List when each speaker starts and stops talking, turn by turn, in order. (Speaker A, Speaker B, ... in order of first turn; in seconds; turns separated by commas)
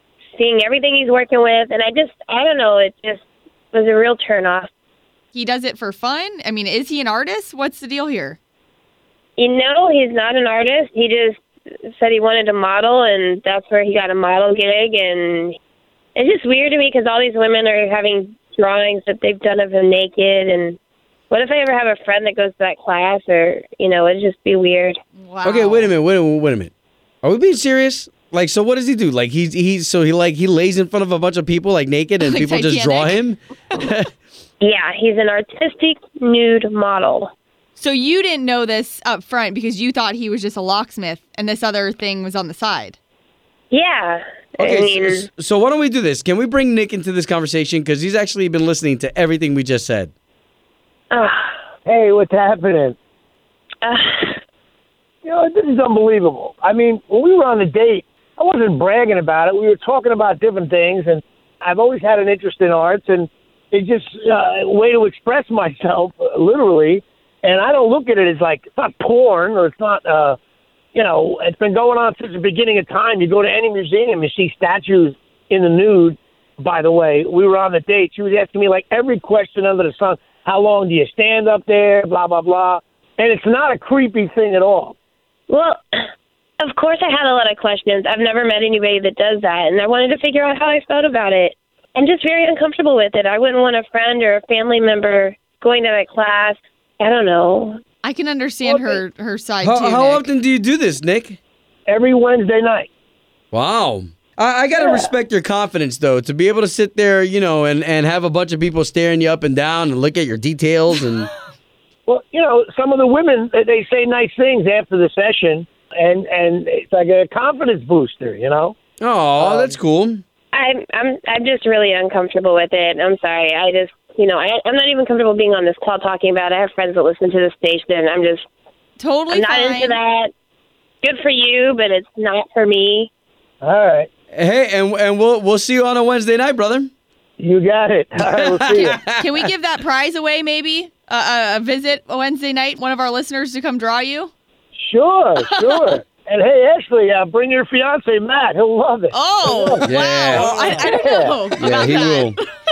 Speaker A: 0.3-4.7, Speaker B: 5.3-8.4, Speaker A: 9.4-15.5, Speaker A: 16.1-20.8, Speaker A: 21.3-25.0, Speaker B: 25.2-25.9, Speaker C: 25.4-26.7, Speaker C: 27.2-34.1, Speaker B: 32.2-33.2, Speaker A: 34.6-37.3, Speaker B: 37.8-43.0, Speaker A: 43.7-45.3, Speaker C: 44.6-50.1, Speaker A: 51.1-51.5, Speaker D: 51.8-53.0, Speaker A: 53.8-54.4, Speaker D: 55.2-70.4, Speaker D: 70.9-84.9, Speaker A: 85.5-85.8, Speaker A: 86.6-97.8, Speaker B: 98.0-100.3, Speaker D: 98.7-99.0, Speaker C: 99.6-101.4, Speaker D: 101.9-102.9, Speaker C: 103.5-111.3, Speaker A: 104.8-105.1, Speaker D: 112.1-118.7, Speaker C: 119.0-120.2, Speaker D: 119.4-119.8, Speaker A: 120.5-128.4, Speaker B: 129.0-130.0, Speaker A: 129.3-130.3, Speaker A: 131.0-133.1, Speaker D: 133.6-134.1, Speaker C: 134.3-136.9, Speaker D: 137.4-139.0, Speaker C: 138.2-139.5, Speaker B: 139.1-144.3, Speaker D: 144.8-151.9, Speaker B: 145.5-145.9, Speaker B: 149.1-152.4, Speaker C: 149.8-150.6, Speaker C: 151.6-152.3